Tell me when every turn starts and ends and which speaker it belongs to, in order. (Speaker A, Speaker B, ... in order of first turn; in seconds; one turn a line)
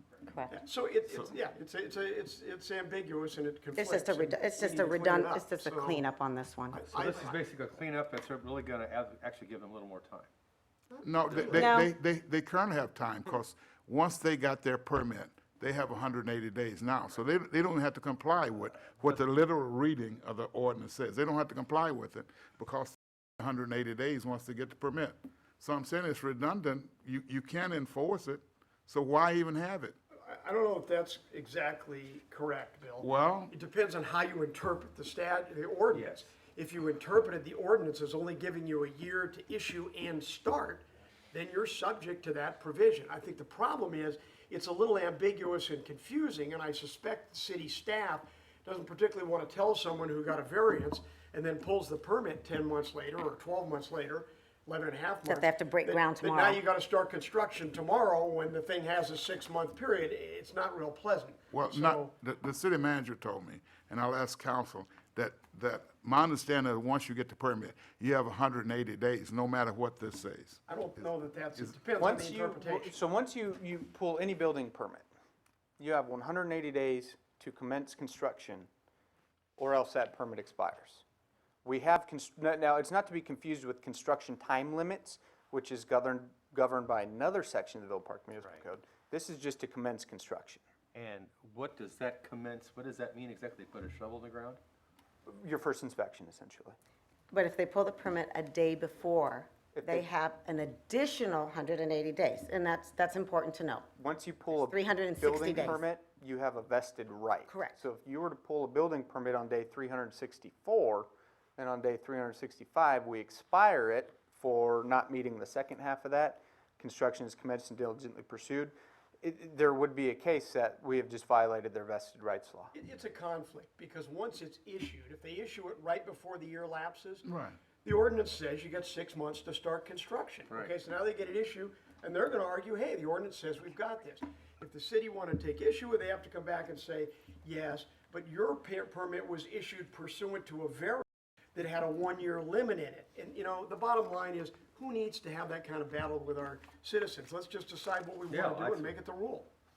Speaker A: 0.3-0.5
Speaker B: 0.5-6.0
Speaker A: 3.8-6.9
Speaker B: 6.7-7.4
Speaker C: 7.0-10.3
Speaker B: 10.9-11.6
Speaker D: 11.0-30.0
Speaker A: 11.5-11.9
Speaker B: 30.2-62.1
Speaker D: 33.0-33.5
Speaker C: 35.9-36.2
Speaker A: 55.3-56.6
Speaker D: 61.5-70.6
Speaker B: 70.7-73.0
Speaker E: 72.0-75.1
Speaker E: 75.8-78.7
Speaker E: 79.6-81.0
Speaker E: 81.6-90.6
Speaker C: 90.9-94.6
Speaker E: 95.3-96.8
Speaker A: 97.3-103.9
Speaker E: 99.7-100.1
Speaker E: 104.0-122.7
Speaker A: 104.5-105.8
Speaker A: 107.5-107.8
Speaker B: 122.7-127.3
Speaker D: 127.2-127.6
Speaker B: 127.8-149.5
Speaker C: 148.3-149.0